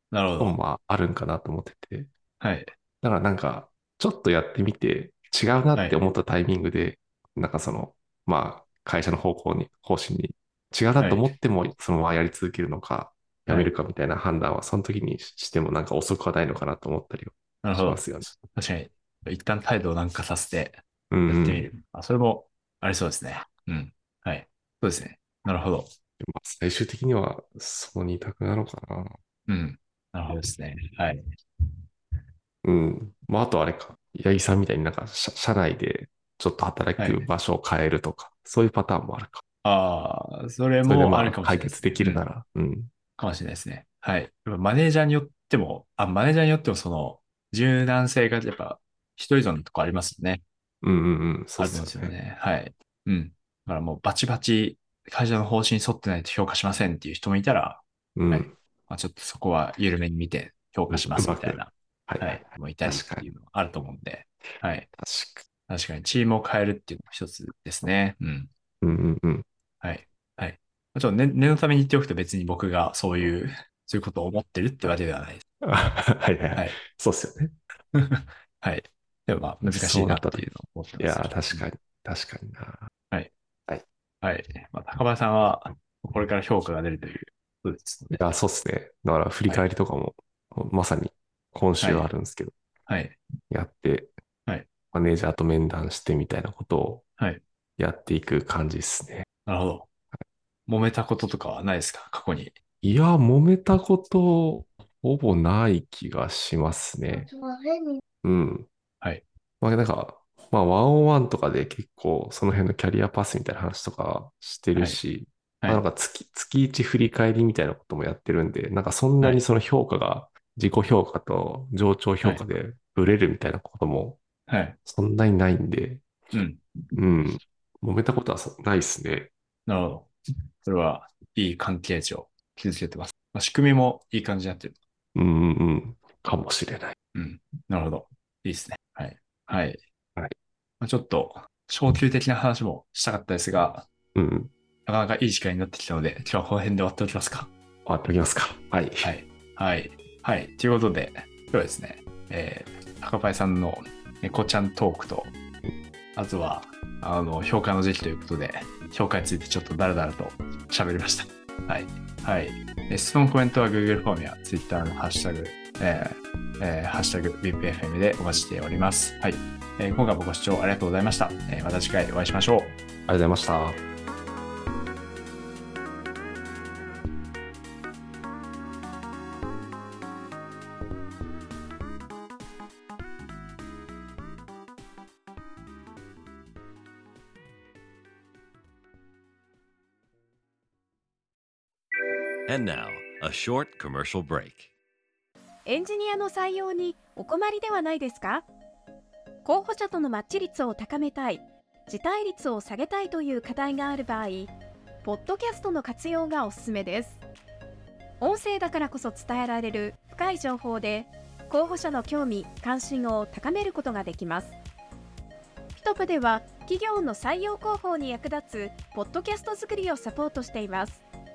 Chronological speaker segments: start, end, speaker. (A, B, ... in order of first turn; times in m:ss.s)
0:00.1-0:00.6 A
0:00.4-0:02.1 B
0:02.4-0:02.7 A
0:03.0-0:18.4 B
0:05.7-0:06.0 A
0:11.0-0:11.3 A
0:17.6-0:25.9 A
0:21.1-0:21.7 B
0:26.2-0:29.2 B
0:29.5-0:31.3 A
0:32.6-0:39.4 B
0:37.0-0:37.3 A
0:39.6-0:42.3 A
0:40.8-0:42.9 B
0:43.2-0:50.4 A
0:50.8-0:52.2 B
0:51.6-1:04.9 A
0:58.2-0:58.6 B
1:00.9-1:03.3 B
1:05.0-1:05.4 B
1:05.7-1:08.5 A
1:08.8-1:09.5 B
1:09.8-1:15.4 A
1:15.6-1:17.5 B
1:17.9-1:21.7 A
1:19.6-1:20.5 B
1:21.0-1:22.9 B
1:24.2-1:28.2 A
1:28.2-1:32.5 B
1:31.8-1:32.1 A
1:32.9-1:33.2 A
1:33.5-1:34.1 B
1:34.9-1:37.1 B
1:37.2-1:37.4 A
1:37.8-1:39.3 B
1:39.5-1:39.9 A
1:40.7-1:42.6 A
1:42.8-1:47.3 B
1:48.2-1:48.7 B
1:49.6-2:04.2 B
1:54.8-1:55.0 A
2:04.5-2:04.8 A
2:04.8-2:06.0 B
2:06.3-2:06.6 A
2:07.0-2:09.3 B
2:09.7-2:14.8 A
2:15.2-2:17.0 B
2:17.2-2:19.8 A
2:20.8-2:23.9 A
2:24.2-2:24.5 B
2:24.9-2:27.5 A
2:27.9-2:29.1 B
2:29.0-2:35.3 A
2:36.2-2:52.8 A
2:53.1-2:53.8 B
3:12.5-3:14.7 C
3:15.7-3:18.5 D
3:19.4-3:24.5 D
3:25.0-3:27.2 D
3:28.2-3:34.6 D
3:35.8-3:41.0 D